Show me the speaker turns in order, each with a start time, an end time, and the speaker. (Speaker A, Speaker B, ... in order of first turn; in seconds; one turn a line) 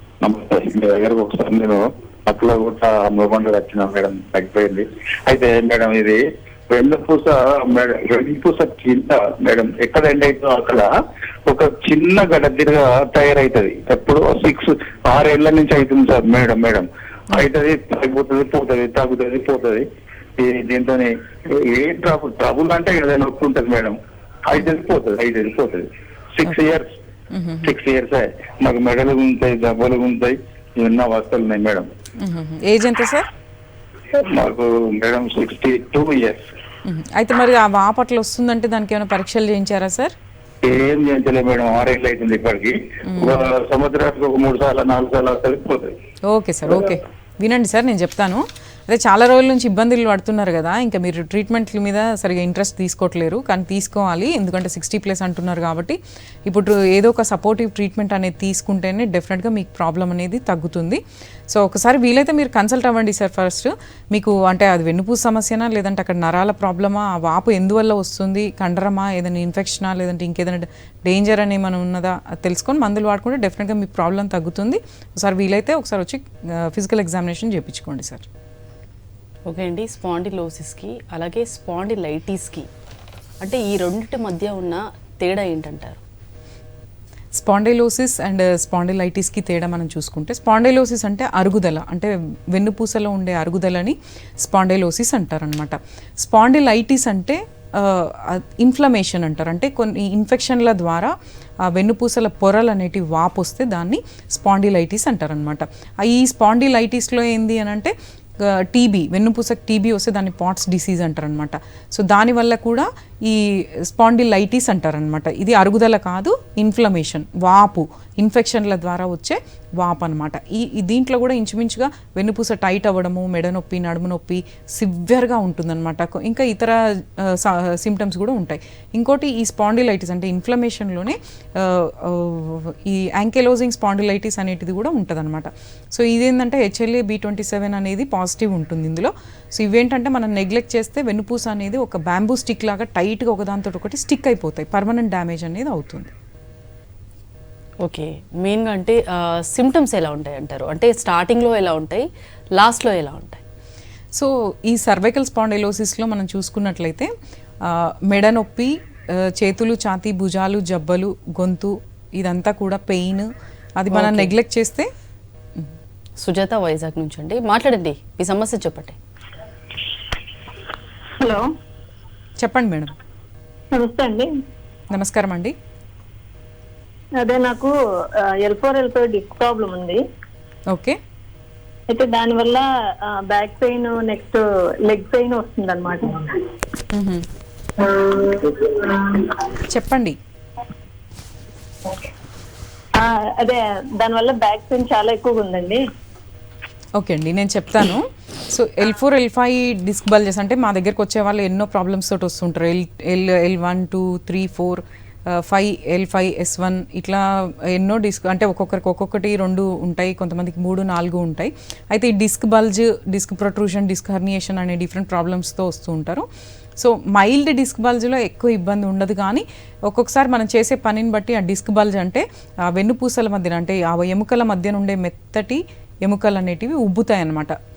Speaker A: 0.2-10.9
Speaker A: 11.4-19.9
Speaker A: 20.4-23.9
Speaker A: 24.5-26.9
Speaker B: 27.3-27.7
Speaker A: 27.6-31.9
Speaker B: 32.2-33.3
Speaker A: 34.2-36.5
Speaker B: 36.8-40.1
Speaker A: 40.6-45.9
Speaker B: 43.0-43.4
Speaker B: 46.3-78.2
Speaker C: 79.5-82.7
Speaker C: 83.4-86.0
Speaker B: 87.3-146.1
Speaker C: 147.8-153.4
Speaker B: 154.1-157.1
Speaker B: 157.6-164.9
Speaker C: 163.9-164.3
Speaker C: 166.2-168.9
Speaker D: 171.2-171.5
Speaker B: 172.4-172.9
Speaker D: 173.7-174.3
Speaker B: 174.9-175.5
Speaker D: 177.2-180.0
Speaker B: 180.7-181.0
Speaker D: 181.9-186.5
Speaker B: 186.9-187.2
Speaker D: 187.8-189.3
Speaker B: 189.6-190.2
Speaker D: 192.9-195.8
Speaker B: 196.9-227.6